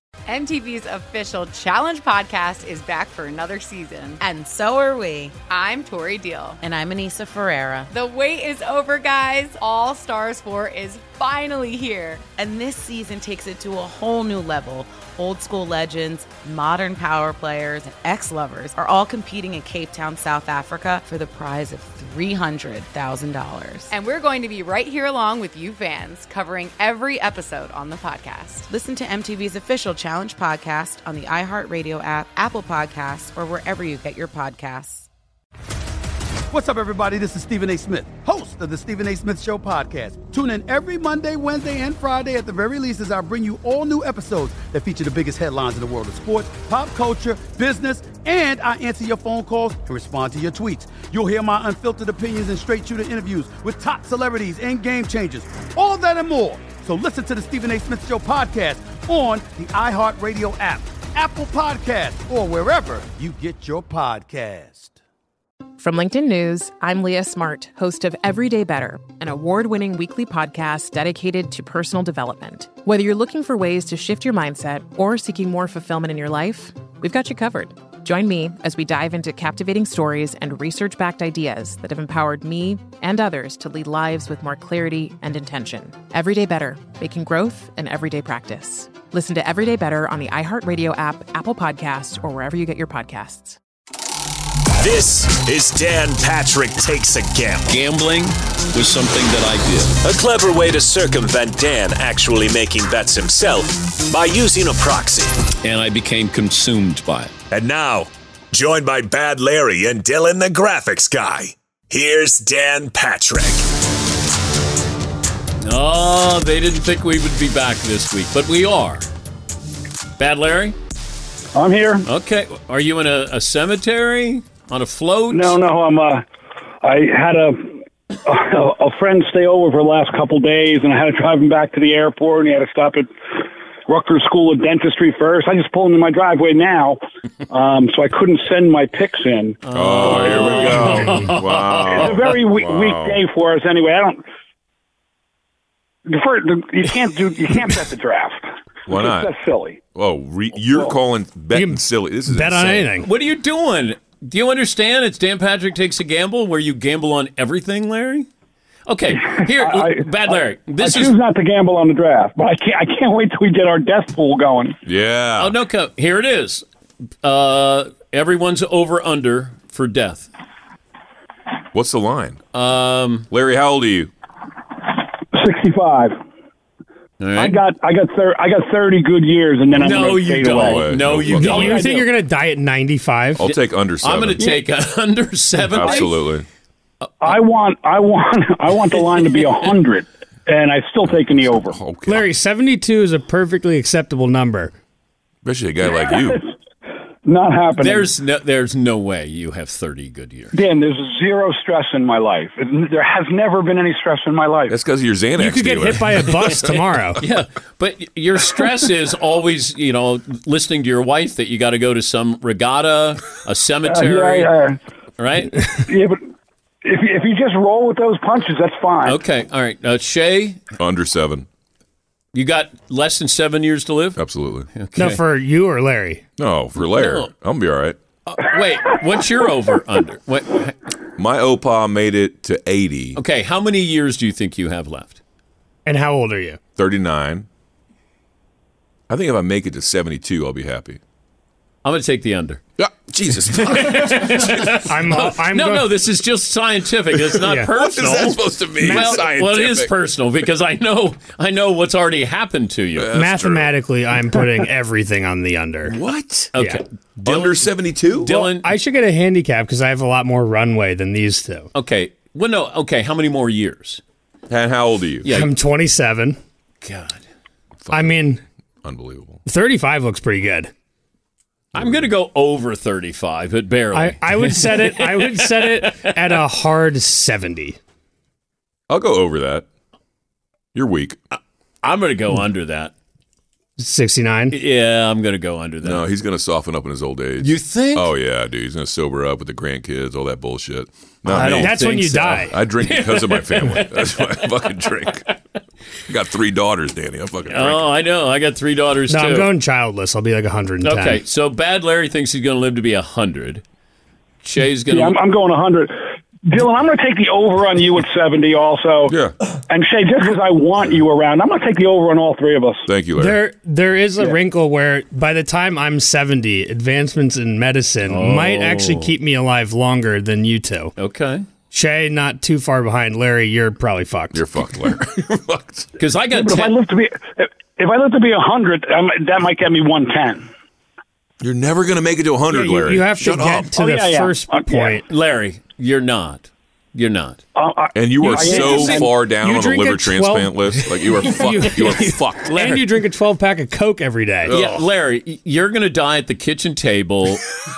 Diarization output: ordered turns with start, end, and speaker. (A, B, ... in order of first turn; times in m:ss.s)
0:00.3-0:04.2 A
0:04.2-0:05.4 B
0:05.4-0:06.6 A
0:06.6-0:07.9 B
0:07.9-0:12.2 A
0:12.4-0:23.9 B
0:23.9-0:28.7 A
0:28.7-0:35.1 B
0:36.5-1:05.0 C
1:05.8-1:33.6 D
1:34.8-1:37.7 E
1:37.7-1:40.0 F
1:40.0-1:45.4 E
1:45.6-1:47.3 F
1:47.5-1:53.6 E
1:55.6-1:59.0 F
2:00.2-2:00.8 F
2:01.5-2:02.1 G
2:02.0-2:05.6 F
2:05.3-2:06.2 G
2:06.8-2:20.8 G
2:19.6-2:22.2 F
2:19.7-2:23.2 H
2:20.9-2:21.3 I
2:21.9-2:24.2 G
2:26.0-2:29.8 G
2:28.9-2:29.3 H
2:29.9-2:32.9 H
2:30.7-2:30.9 G
2:31.5-2:33.1 I
2:33.0-2:38.3 F
2:38.8-2:41.1 F
2:39.2-2:44.8 G
2:44.8-2:45.5 H
2:45.4-2:46.6 F
2:47.2-2:50.3 F
2:51.7-2:52.4 H
2:52.5-2:53.3 F
2:53.3-2:54.1 H
2:55.3-2:56.2 G
2:57.2-2:57.6 F
2:57.3-3:01.0 G
2:59.7-3:01.8 H
2:59.7-3:02.0 F
3:01.3-3:03.4 I
3:01.5-3:02.0 G
3:03.4-3:04.6 H
3:03.4-3:06.3 F
3:05.7-3:06.4 H
3:05.8-3:06.1 G
3:07.2-3:11.8 G
3:09.2-3:09.5 F
3:11.1-3:12.3 H
3:12.0-3:14.7 I
3:15.4-3:16.4 H
3:16.1-3:16.4 G
3:17.2-3:18.1 G
3:17.8-3:20.5 F
3:20.5-3:24.8 G
3:24.7-3:26.6 H
3:25.4-3:27.2 I
3:27.2-3:34.5 F
3:33.8-3:34.8 G
3:35.2-3:35.6 F
3:35.9-3:36.2 G
3:36.8-3:39.2 G
3:39.0-3:40.6 F
3:40.8-3:41.5 H
3:42.3-3:44.2 F
3:44.2-3:44.7 H
3:44.7-3:45.2 F
3:45.0-3:46.2 I
3:46.4-3:48.0 H
3:46.8-3:47.3 F
3:48.3-3:50.8 F
3:51.2-3:53.2 H
3:53.1-3:55.2 F
3:55.8-3:56.6 I
3:56.8-3:57.5 H
3:59.1-4:01.0 H
4:01.8-4:02.6 F
4:02.8-4:04.8 H
4:03.4-4:13.1 F
4:04.8-4:06.0 I
4:07.4-4:07.7 I
4:07.7-4:09.9 H
4:08.8-4:09.3 I
4:13.0-4:13.7 H
4:13.1-4:16.0 I
4:15.9-4:16.5 H
4:16.5-4:18.7 F
4:16.6-4:16.8 I
4:17.2-4:18.3 H
4:18.2-4:21.7 I
4:21.7-4:24.0 F
4:24.5-4:25.3 H
4:25.2-4:25.5 F
4:25.3-4:26.4 I
4:26.8-4:27.2 F
4:27.8-4:28.3 H
4:27.9-4:28.4 I
4:28.8-4:29.4 H
4:29.4-4:30.7 I
4:31.7-4:36.4 F
4:31.8-4:32.0 H
4:33.9-4:37.8 I
4:38.9-4:39.6 H
4:40.7-4:41.2 H
4:41.8-4:42.9 F
4:43.8-4:44.6 I
4:44.5-4:46.0 F
4:45.8-4:55.3 H
4:47.4-4:48.1 F
4:51.3-4:54.7 F
4:51.3-4:52.5 I
4:56.1-4:57.9 H
4:57.5-4:59.5 F
4:59.1-5:01.2 I
5:00.8-5:03.6 F
5:04.4-5:05.2 F
5:04.9-5:09.2 G
5:09.1-5:09.4 H
5:09.7-5:12.9 G
5:12.9-5:13.4 H
5:13.1-5:20.9 I
5:18.0-5:19.1 F
5:21.0-5:21.4 F
5:21.7-5:24.4 I
5:24.3-5:25.9 H
5:26.0-5:26.8 F
5:26.3-5:30.5 G
5:31.4-5:33.7 H
5:32.5-5:35.1 I
5:33.7-5:35.0 G
5:35.1-5:37.4 F
5:37.5-5:39.1 G
5:37.9-5:42.8 H
5:38.2-5:39.0 F
5:38.3-5:44.6 I
5:44.4-5:44.8 H
5:44.5-5:47.5 F